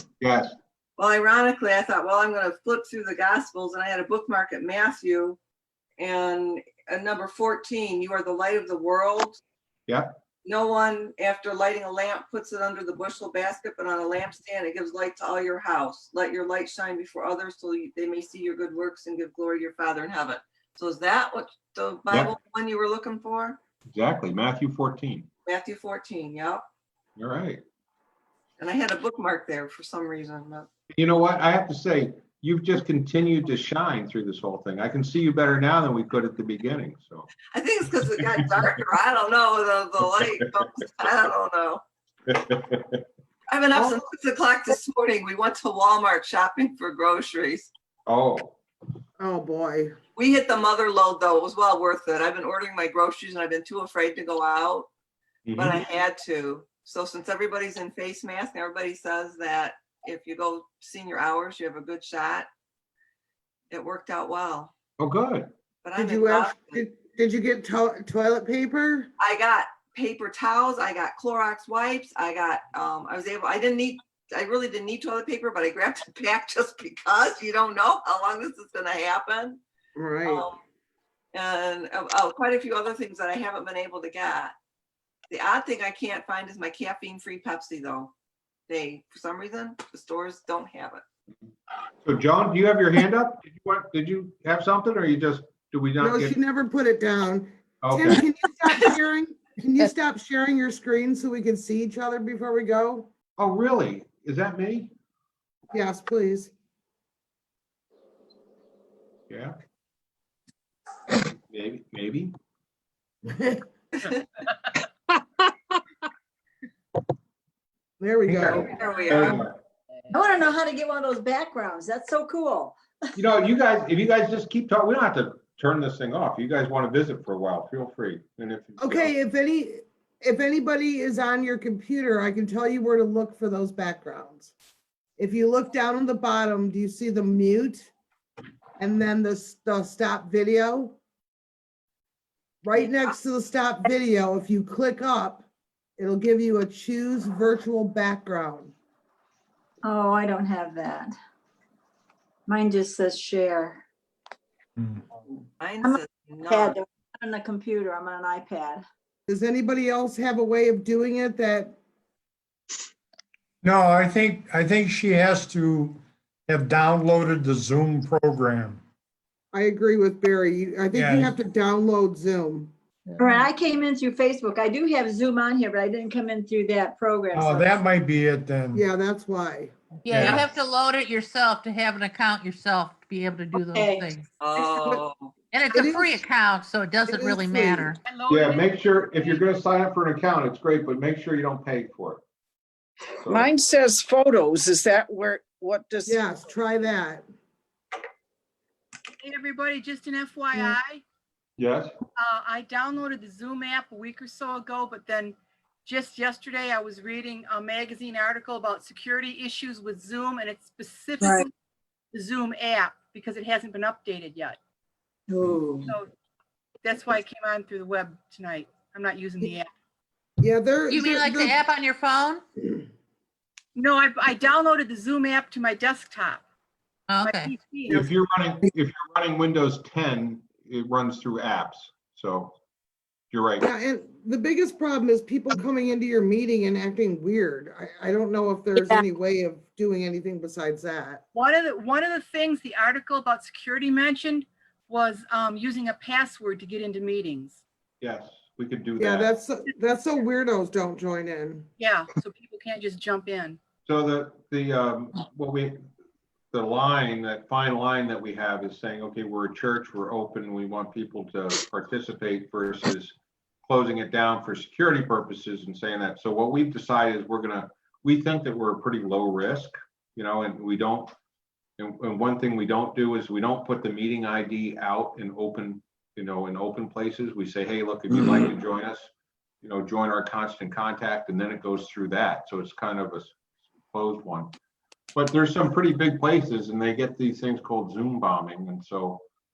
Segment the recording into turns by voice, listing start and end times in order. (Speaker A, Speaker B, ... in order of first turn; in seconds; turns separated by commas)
Speaker A: 0.2-0.5, Speaker B: 1.0-5.4, Speaker B: 6.0-9.4, Speaker A: 9.9-10.2, Speaker B: 10.4-23.6, Speaker A: 23.9-25.3, Speaker B: 25.5-26.6, Speaker A: 27.2-27.6, Speaker B: 28.6-30.7, Speaker A: 30.9-37.3, Speaker B: 37.5-41.8, Speaker A: 42.3-43.0, Speaker B: 43.5-47.7, Speaker A: 43.7-44.0, Speaker A: 48.1-48.6, Speaker C: 49.2-50.0, Speaker B: 50.2-54.9, Speaker A: 55.5-55.8, Speaker B: 55.6-62.5, Speaker B: 63.7-64.7, Speaker A: 65.0-65.5, Speaker B: 65.8-66.8, Speaker C: 66.0-69.1, Speaker B: 69.2-79.6, Speaker C: 80.0-80.5, Speaker B: 80.3-80.6, Speaker B: 81.3-84.5, Speaker B: 85.3-88.1, Speaker B: 88.7-91.0, Speaker A: 92.0-96.4, Speaker C: 96.0-103.1, Speaker A: 97.8-98.2, Speaker A: 103.4-104.9, Speaker C: 105.7-106.5, Speaker A: 109.3-109.5, Speaker A: 111.5-112.3, Speaker C: 113.3-113.6, Speaker C: 118.0-118.7, Speaker A: 118.3-119.6, Speaker D: 118.5-119.4, Speaker B: 118.7-119.4, Speaker D: 120.1-123.1, Speaker A: 123.2-129.1, Speaker C: 128.8-134.5, Speaker C: 135.2-137.9, Speaker C: 138.8-141.0, Speaker C: 142.6-145.4, Speaker C: 146.0-148.7, Speaker D: 149.8-151.2, Speaker D: 152.5-153.8, Speaker E: 154.8-155.0, Speaker B: 155.6-156.8, Speaker D: 155.8-158.8, Speaker C: 159.3-161.8, Speaker E: 163.6-168.8, Speaker C: 169.5-172.7, Speaker E: 170.9-171.3, Speaker D: 173.2-177.9, Speaker E: 177.3-178.8, Speaker C: 178.7-180.4, Speaker F: 180.0-184.2, Speaker E: 180.1-180.5, Speaker D: 183.6-184.1, Speaker B: 184.4-185.3, Speaker F: 185.5-188.0, Speaker C: 185.7-186.2, Speaker C: 187.1-188.0, Speaker G: 188.0-189.4, Speaker A: 188.3-192.2, Speaker A: 193.2-193.5, Speaker H: 193.2-196.4, Speaker C: 196.1-197.2, Speaker G: 199.2-201.0, Speaker A: 201.6-201.9, Speaker G: 202.2-211.5, Speaker D: 211.2-211.5, Speaker G: 212.1-214.6, Speaker D: 215.3-215.9, Speaker G: 215.8-216.1, Speaker G: 216.8-219.7, Speaker C: 220.4-221.6, Speaker F: 220.9-222.4, Speaker G: 223.8-226.4, Speaker F: 227.1-227.5, Speaker G: 227.2-228.1, Speaker A: 227.9-232.6, Speaker A: 233.3-233.7, Speaker C: 233.6-241.2, Speaker G: 241.3-247.6, Speaker A: 248.0-249.3, Speaker C: 249.0-251.7, Speaker G: 251.8-253.6, Speaker A: 253.9-255.8, Speaker A: 256.5-271.1, Speaker A: 271.8-279.1, Speaker A: 279.6-283.4, Speaker A: 283.9-284.5, Speaker A: 285.1-289.2